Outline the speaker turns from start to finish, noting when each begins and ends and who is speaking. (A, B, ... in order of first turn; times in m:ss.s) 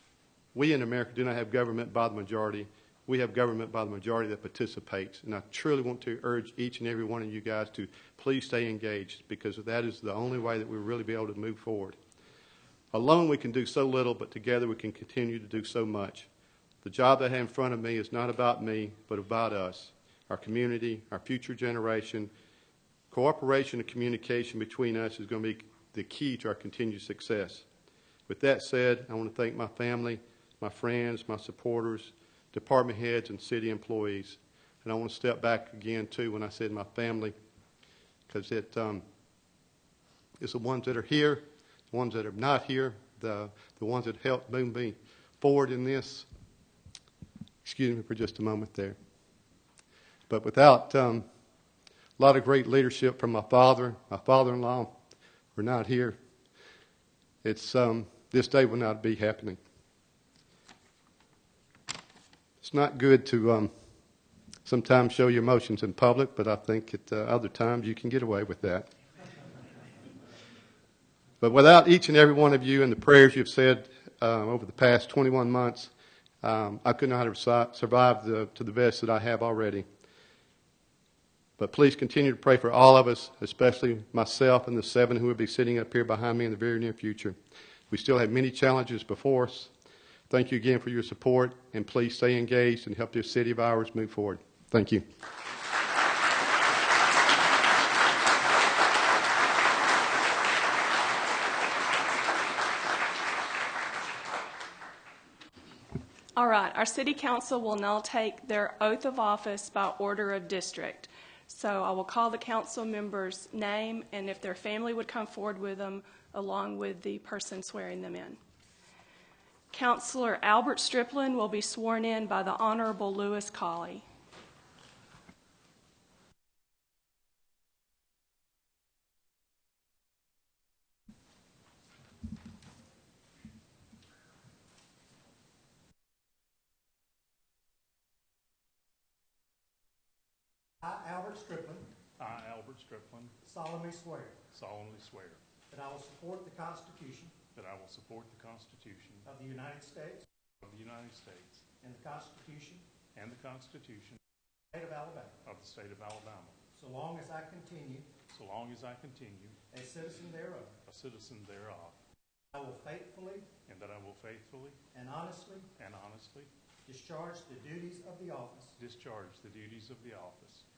0:00.5-0:12.0 A
0:12.9-0:16.3 A
0:16.8-0:22.3 A
0:23.1-0:27.7 A
0:28.3-0:37.4 A
0:38.3-0:39.0 A
0:40.4-0:46.3 A
0:47.6-0:49.0 A
0:50.3-0:51.3 A
0:52.2-0:54.9 A
0:55.6-0:56.2 A
0:57.4-0:59.6 A
1:02.6-1:03.7 A
1:04.6-1:08.9 A
1:11.4-1:15.9 A
1:16.4-1:19.9 A
1:21.6-1:27.4 A
1:27.9-1:29.7 A
1:30.3-1:35.0 A
1:46.4-1:58.4 B
1:59.7-2:04.0 B
2:20.8-2:21.9 C
2:22.2-2:23.3 D
2:23.5-2:24.4 C
2:24.5-2:25.4 D
2:25.7-2:27.3 C
2:27.5-2:29.3 D
2:29.3-2:30.2 C
2:30.6-2:31.6 D
2:31.8-2:32.8 C
2:33.2-2:34.2 D
2:34.7-2:35.3 C
2:35.4-2:36.6 D
2:36.8-2:38.1 C
2:38.3-2:39.6 D
2:39.7-2:40.7 C
2:40.9-2:42.0 D
2:42.5-2:43.4 C
2:43.7-2:44.8 D
2:45.0-2:45.6 C
2:45.8-2:46.5 D
2:46.9-2:48.7 C
2:48.8-2:50.6 D